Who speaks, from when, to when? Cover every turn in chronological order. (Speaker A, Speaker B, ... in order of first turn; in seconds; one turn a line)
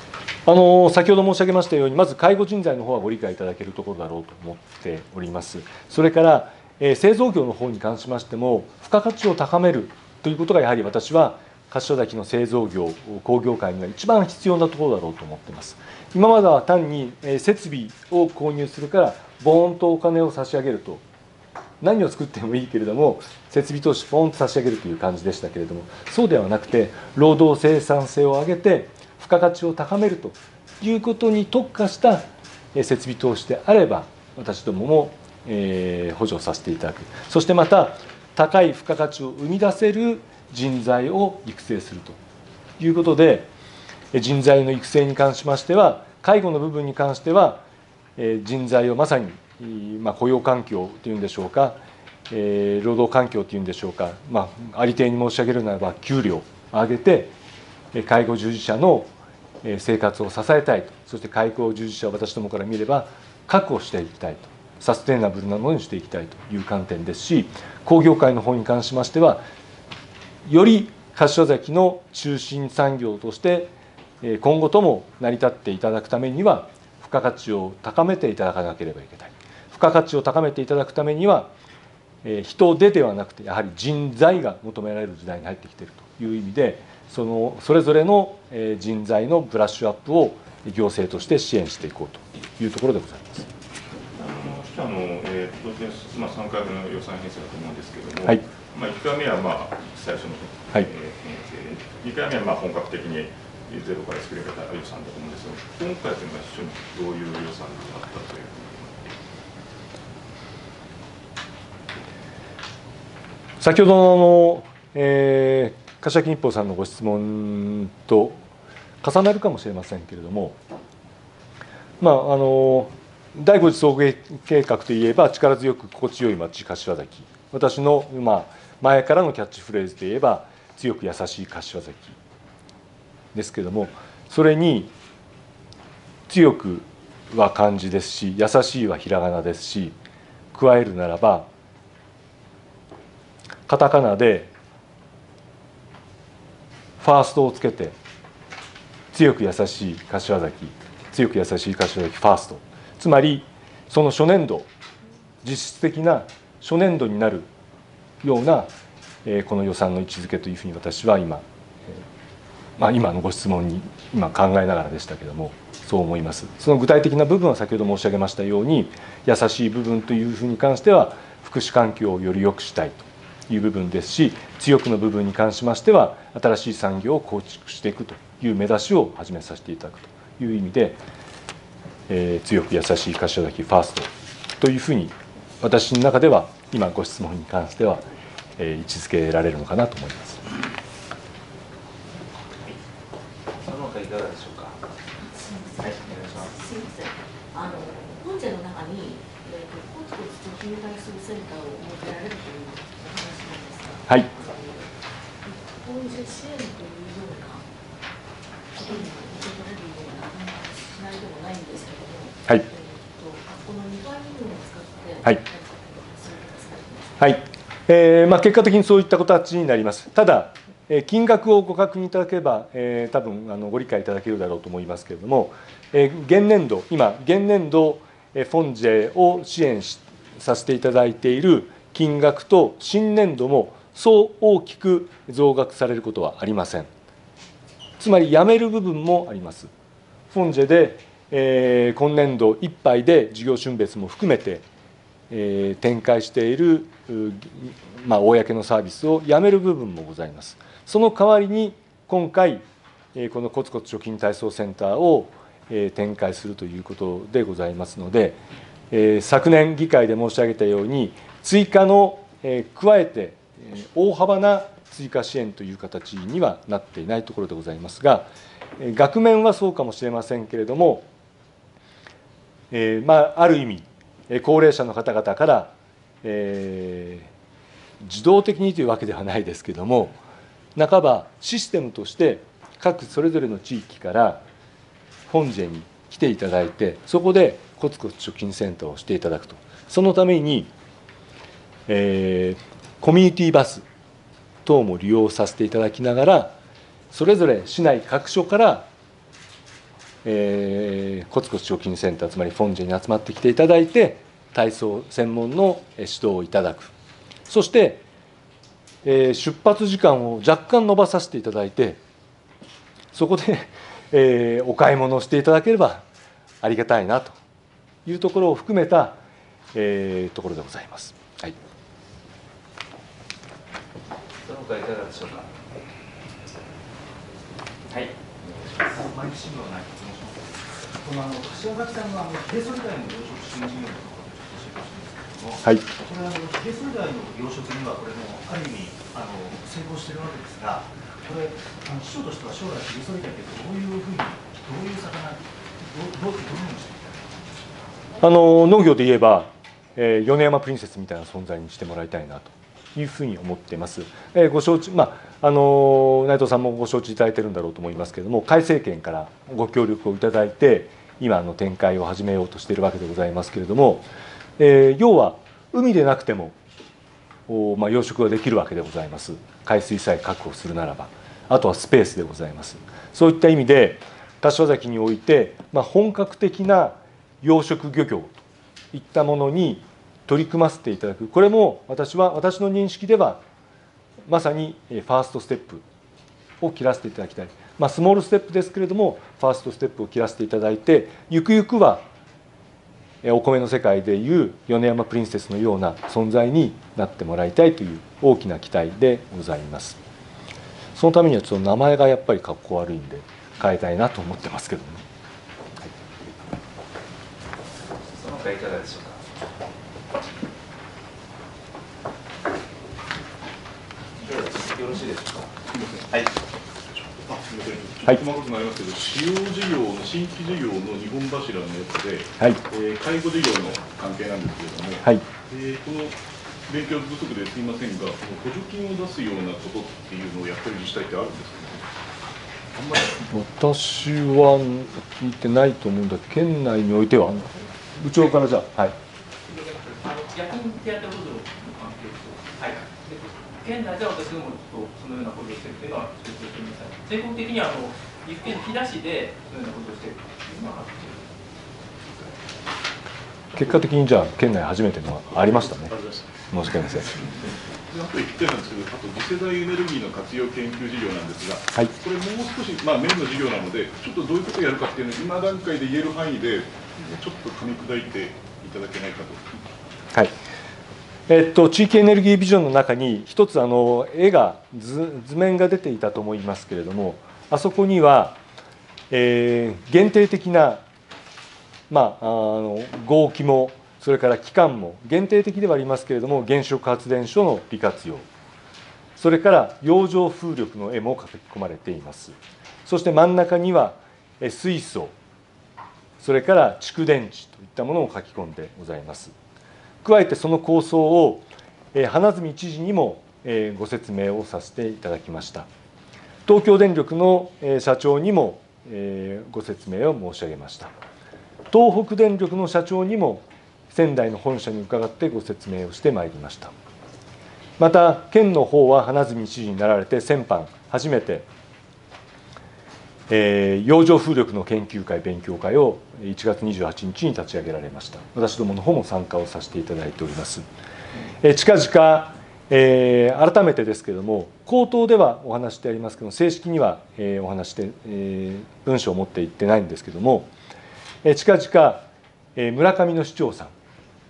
Speaker A: 0.5-21.0
Speaker A: 21.8-42.2
Speaker A: 42.8-43.5
Speaker A: 44.1-47.6
Speaker A: 48.2-51.8
Speaker A: 52.3-57.3
Speaker A: 57.9-59.1
Speaker A: 59.6-69.4
Speaker A: 70.5-81.5
Speaker A: 82.2-93.5
Speaker B: 94.1-109.1
Speaker A: 113.6-118.4
Speaker A: 119.0-120.6
Speaker A: 122.0-132.2
Speaker A: 133.3-134.9
Speaker A: 136.3-140.0
Speaker A: 140.5-141.5
Speaker A: 143.7-144.5
Speaker A: 147.0-148.0
Speaker A: 149.1-154.7
Speaker A: 155.4-157.5
Speaker A: 158.2-158.7
Speaker A: 159.2-162.0
Speaker A: 162.8-181.0
Speaker A: 182.1-188.1
Speaker A: 188.6-190.4
Speaker C: 193.6-194.8
Speaker D: 195.2-204.9
Speaker C: 195.8-196.5
Speaker D: 205.4-207.7
Speaker D: 208.7-217.2
Speaker A: 217.2-236.9
Speaker A: 238.0-239.7
Speaker A: 240.3-244.6
Speaker A: 245.3-252.6
Speaker A: 253.2-258.4
Speaker A: 258.9-271.1
Speaker A: 272.7-277.3
Speaker A: 278.0-280.2
Speaker A: 280.8-284.4
Speaker A: 285.3-290.7
Speaker A: 291.9-293.9
Speaker A: 294.6-296.6
Speaker A: 297.1-298.9
Speaker A: 300.2-306.9
Speaker A: 307.5-308.0
Speaker A: 309.0-312.0
Speaker A: 313.1-316.1
Speaker A: 316.6-317.4
Speaker A: 318.1-319.2
Speaker A: 319.7-321.6
Speaker C: 324.4-325.5
Speaker C: 327.9-329.0
Speaker E: 328.8-347.3
Speaker A: 348.2-366.6
Speaker A: 367.5-383.4
Speaker A: 384.3-385.8
Speaker A: 386.6-392.1
Speaker A: 393.2-400.0
Speaker A: 401.0-405.1
Speaker C: 408.1-409.2
Speaker C: 414.2-415.5
Speaker F: 415.7-416.1
Speaker F: 416.9-431.9
Speaker F: 432.8-433.1
Speaker A: 433.2-439.0
Speaker G: 439.4-451.4
Speaker A: 453.6-455.9
Speaker F: 455.4-457.3
Speaker A: 456.5-457.2
Speaker F: 457.9-469.6
Speaker A: 471.3-478.4
Speaker A: 479.1-480.8
Speaker A: 481.9-488.3
Speaker A: 489.2-495.1
Speaker A: 496.2-499.3
Speaker A: 500.0-505.7
Speaker A: 506.5-510.9
Speaker A: 511.7-516.7
Speaker A: 517.8-521.5
Speaker A: 523.3-530.6
Speaker A: 531.4-540.5
Speaker A: 541.2-543.7